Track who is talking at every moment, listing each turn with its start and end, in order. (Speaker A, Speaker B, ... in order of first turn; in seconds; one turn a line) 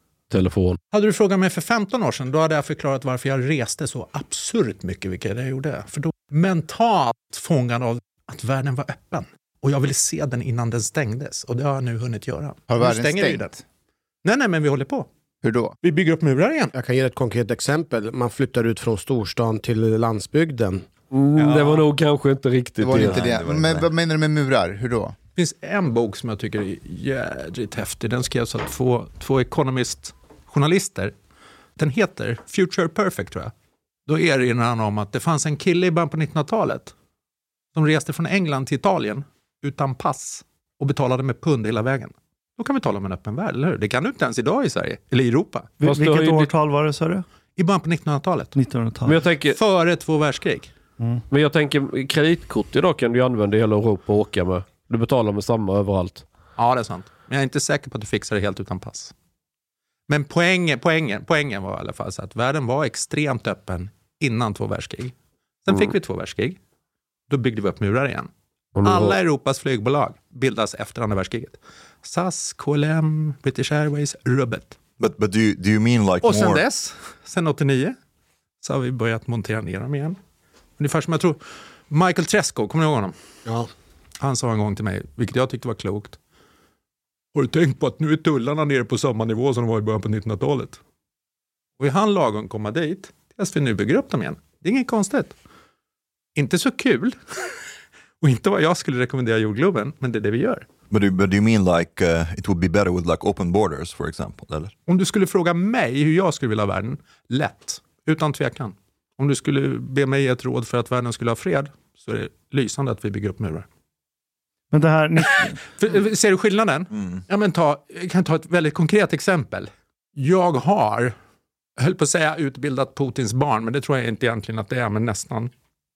Speaker A: 0.3-0.8
Speaker B: 0.9-13.6
Speaker C: 12.7-13.5
Speaker B: 14.2-15.1
Speaker C: 15.4-15.7
Speaker B: 15.8-16.7
Speaker D: 16.7-20.9
Speaker A: 21.1-23.3
Speaker B: 21.4-21.9
Speaker C: 22.8-25.1
Speaker E: 22.9-23.9
Speaker B: 25.4-31.1
Speaker B: 31.8-33.5
Speaker B: 34.1-36.9
Speaker B: 37.7-45.7
Speaker F: 45.8-47.2
Speaker A: 45.8-46.5
Speaker B: 47.6-48.5
Speaker F: 48.5-49.2
Speaker A: 49.0-49.6
Speaker B: 49.5-50.7
Speaker A: 51.3-56.2
Speaker B: 56.6-59.1
Speaker B: 60.1-65.1
Speaker B: 65.6-66.6
Speaker B: 67.3-68.3
Speaker A: 68.7-69.2
Speaker B: 68.8-74.8
Speaker E: 75.0-76.6
Speaker B: 76.2-78.0
Speaker B: 78.6-80.2
Speaker B: 80.8-83.1
Speaker B: 84.2-86.2
Speaker B: 87.3-90.8
Speaker B: 91.8-95.3
Speaker B: 96.3-97.2
Speaker B: 98.2-100.6
Speaker E: 100.9-104.7
Speaker B: 104.9-113.7
Speaker F: 114.7-115.6
Speaker B: 115.7-121.1
Speaker B: 121.8-125.5